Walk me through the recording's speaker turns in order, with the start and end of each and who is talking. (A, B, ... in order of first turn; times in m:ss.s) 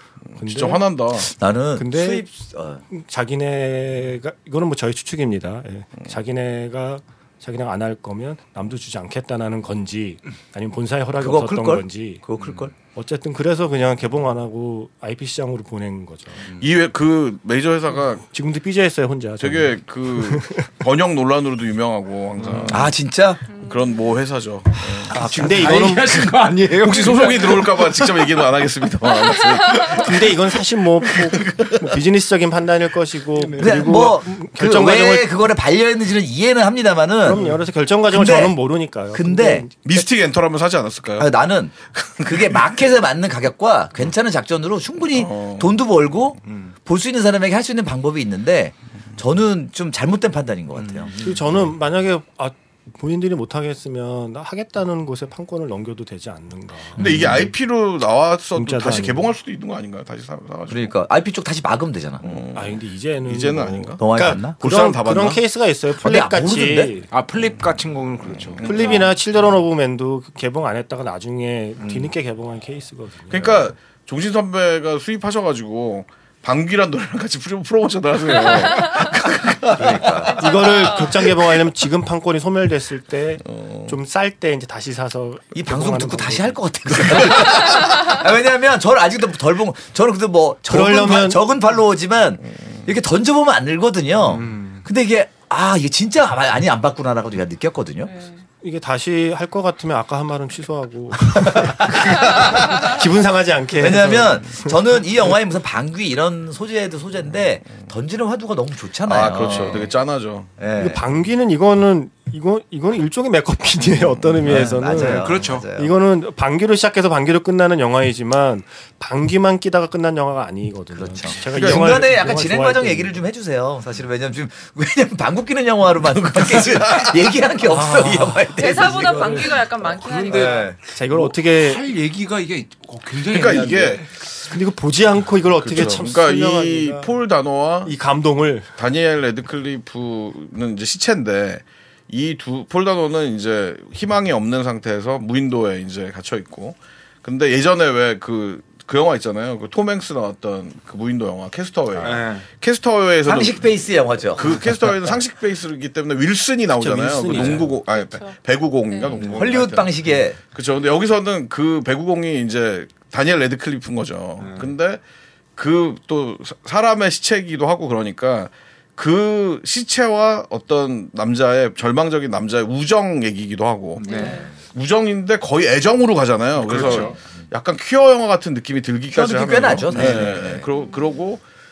0:00.3-0:01.3 A
0:00.4-0:00.9 B
0:01.2-0:02.8 C
0:01.8-0:02.3 B
0:02.9-0:12.2 B
0:11.2-0:12.7 C
0:12.9-0:16.4 B
0:16.6-0:18.2 A
0:18.3-0:20.7 B
0:19.4-0:23.0 A
0:22.4-0:22.8 D
0:22.7-0:23.4 C
0:23.5-0:24.1 E
0:23.5-0:26.0 A
0:25.0-0:28.4 D
0:25.1-0:26.3 B
0:26.7-0:30.3 A
0:29.4-0:29.9 E
0:30.0-0:35.3 B
0:31.4-0:31.9 A
0:33.4-0:34.0 D
0:33.6-0:37.4 C
0:37.2-0:39.8 B
0:38.1-0:38.6 C
0:39.1-0:39.7 C
0:39.8-0:41.3 A
0:41.2-0:51.1 C
0:42.0-0:42.6 A
0:45.2-0:45.7 A
0:46.5-0:46.7 D
0:50.8-0:51.6 D
0:51.2-0:57.3 B
0:57.0-1:00.9 A
0:58.6-0:59.3 B
1:00.7-1:02.4 C
1:02.2-1:05.4 A
1:02.5-1:07.1 B
1:04.0-1:04.6 C
1:06.0-1:06.9 C
1:07.1-1:09.0 D
1:08.4-1:09.1 A
1:08.6-1:13.6 B
1:11.8-1:12.1 D
1:13.3-1:20.3 A
1:18.6-1:19.1 E
1:19.7-1:20.4 C
1:20.2-1:21.3 E
1:20.4-1:27.3 B
1:23.5-1:24.0 A
1:25.5-1:38.1 C
1:30.7-1:31.4 B
1:34.3-1:34.8 D
1:38.0-1:38.4 E
1:38.6-1:44.8 B
1:41.4-1:42.9 C
1:43.8-1:49.9 C
1:49.1-1:50.5 A
1:50.6-1:51.0 C
1:50.8-2:03.2 B
1:54.4-1:55.9 C
1:54.5-1:55.7 D
2:00.9-2:09.6 C
2:01.5-2:02.0 A
2:06.2-2:07.2 A
2:07.7-2:09.5 B
2:08.6-2:10.7 E
2:09.9-2:14.1 D
2:10.2-2:10.8 C
2:10.9-2:11.8 B
2:13.3-2:14.2 A
2:14.5-2:17.2 B
2:15.6-2:17.9 A
2:17.8-2:18.7 B
2:18.8-2:33.6 A
2:32.0-2:32.5 D
2:33.2-2:34.5 C
2:34.3-2:45.0 A
2:36.8-2:37.8 B
2:37.9-2:38.4 E
2:38.9-2:39.2 E
2:39.2-2:40.4 C
2:44.4-2:44.7 D
2:45.6-3:01.4 A
2:54.0-2:54.5 D
2:54.0-2:54.5 E
2:56.6-2:57.2 D
2:56.9-2:57.3 C
2:59.1-3:00.7 C
2:59.9-3:00.4 D
3:00.7-3:01.1 E